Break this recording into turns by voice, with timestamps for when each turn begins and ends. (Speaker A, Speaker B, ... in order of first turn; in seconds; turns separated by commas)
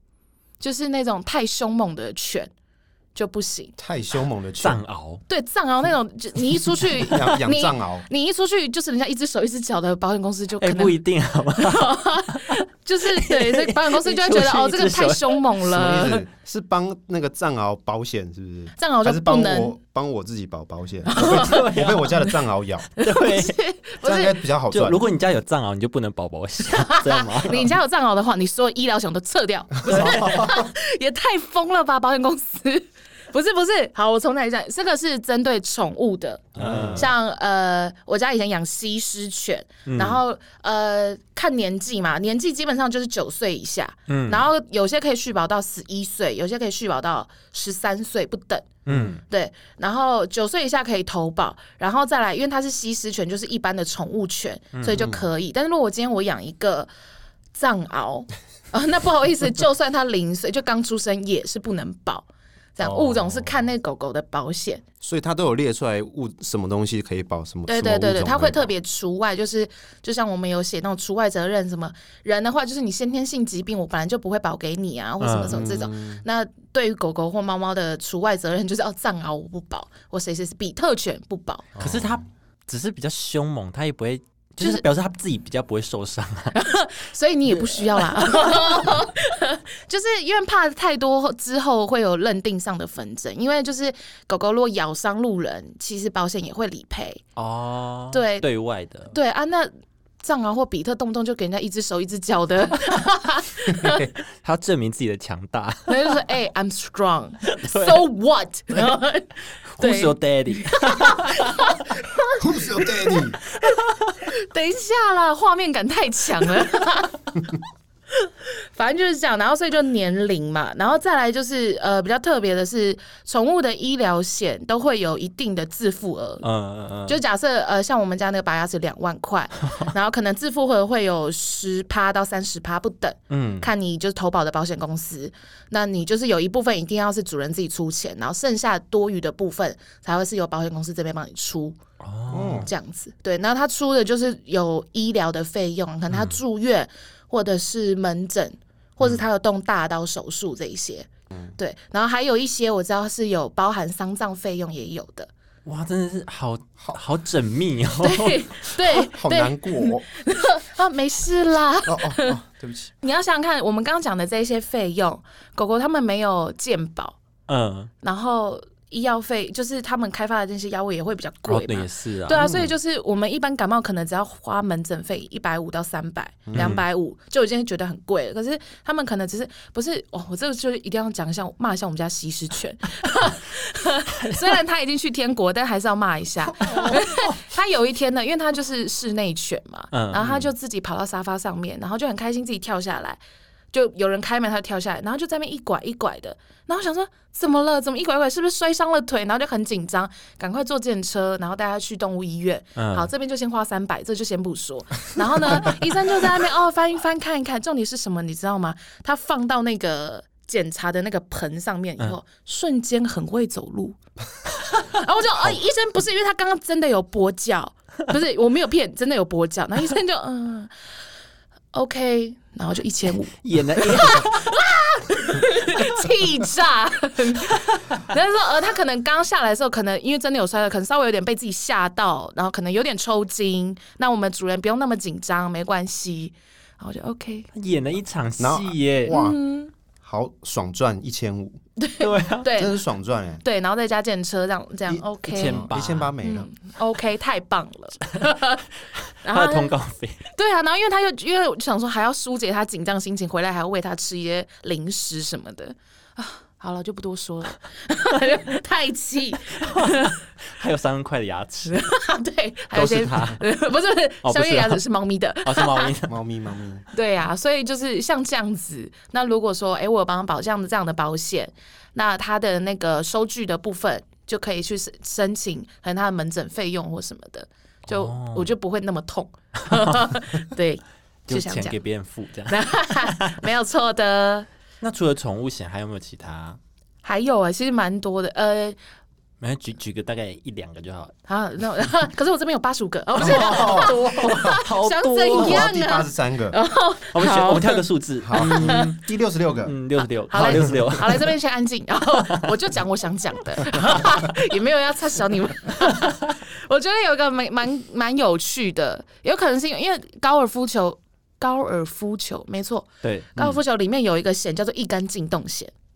Speaker A: 0.6-2.5, Speaker A: 3.1-3.7, Speaker B: 3.8-4.8, Speaker C: 4.6-5.2, Speaker A: 5.3-11.0, Speaker B: 6.9-8.1, Speaker C: 10.6-12.5, Speaker A: 11.5-16.2, Speaker C: 13.1-15.5, Speaker B: 15.7-22.9, Speaker A: 18.8-19.7, Speaker A: 21.1-21.7, Speaker C: 21.1-22.2, Speaker C: 23.0-23.6, Speaker A: 23.0-24.4, Speaker B: 24.0-25.0, Speaker C: 24.7-27.7, Speaker A: 26.7-48.7, Speaker B: 29.8-30.7, Speaker C: 29.9-30.3, Speaker B: 36.5-37.1, Speaker C: 36.5-37.1, Speaker C: 39.9-40.2, Speaker C: 44.1-44.5, Speaker C: 48.9-49.2, Speaker B: 48.9-49.1, Speaker A: 49.3-56.9, Speaker C: 54.7-55.0, Speaker B: 54.9-55.2, Speaker A: 57.5-64.8, Speaker B: 62.8-63.5, Speaker B: 65.0-68.7, Speaker A: 67.7-81.7, Speaker C: 75.2-75.6, Speaker B: 75.5-76.2, Speaker B: 81.7-82.2, Speaker C: 81.8-86.5, Speaker A: 86.5-97.2, Speaker C: 88.3-88.6, Speaker C: 97.3-99.1, Speaker A: 98.1-98.5, Speaker A: 99.1-99.7, Speaker A: 100.2-104.0, Speaker B: 103.8-104.1, Speaker C: 104.3-106.2, Speaker A: 105.9-117.2, Speaker C: 107.5-108.0, Speaker C: 109.7-111.7, Speaker B: 112.4-113.4, Speaker A: 118.2-126.4, Speaker C: 126.4-127.2, Speaker A: 127.1-141.8, Speaker C: 133.3-133.7, Speaker C: 142.0-142.7, Speaker B: 142.3-142.7, Speaker A: 142.4-155.3, Speaker C: 146.1-146.4, Speaker C: 155.6-158.7, Speaker A: 158.0-162.4, Speaker B: 159.0-160.1, Speaker B: 161.8-162.9, Speaker A: 163.0-167.2, Speaker C: 167.5-167.9, Speaker A: 168.0-193.2, Speaker C: 171.5-172.5, Speaker B: 172.3-172.7, Speaker B: 176.4-176.8, Speaker C: 176.5-176.8, Speaker C: 184.2-184.5, Speaker C: 186.7-187.2, Speaker C: 189.9-190.4, Speaker A: 193.7-214.0, Speaker C: 202.8-203.1, Speaker A: 214.6-220.7, Speaker A: 221.7-237.5, Speaker C: 223.4-224.6, Speaker C: 237.5-239.2, Speaker B: 238.4-239.4, Speaker A: 239.1-239.7, Speaker B: 240.0-241.6, Speaker A: 241.8-242.8, Speaker C: 242.0-242.5, Speaker B: 242.5-243.4, Speaker A: 243.4-245.7, Speaker B: 244.9-246.5, Speaker C: 245.3-246.1, Speaker A: 246.2-248.6, Speaker A: 249.2-249.7, Speaker C: 249.2-250.2, Speaker A: 250.3-260.1, Speaker C: 259.5-261.8, Speaker A: 261.7-265.9, Speaker C: 262.7-263.4, Speaker C: 264.2-264.8, Speaker C: 265.4-266.2, Speaker B: 266.1-266.8, Speaker A: 266.9-281.8, Speaker C: 277.9-278.5, Speaker C: 279.7-280.1, Speaker C: 281.3-283.4, Speaker A: 282.5-284.5, Speaker C: 284.8-286.6, Speaker A: 287.0-288.8, Speaker C: 289.4-291.1, Speaker A: 291.3-298.9, Speaker B: 293.2-294.6, Speaker C: 293.3-295.7, Speaker B: 295.3-296.6, Speaker C: 297.1-299.0, Speaker B: 298.2-299.7, Speaker C: 299.6-301.3, Speaker A: 300.3-315.7, Speaker B: 300.4-300.8, Speaker C: 302.2-302.5, Speaker C: 313.0-313.5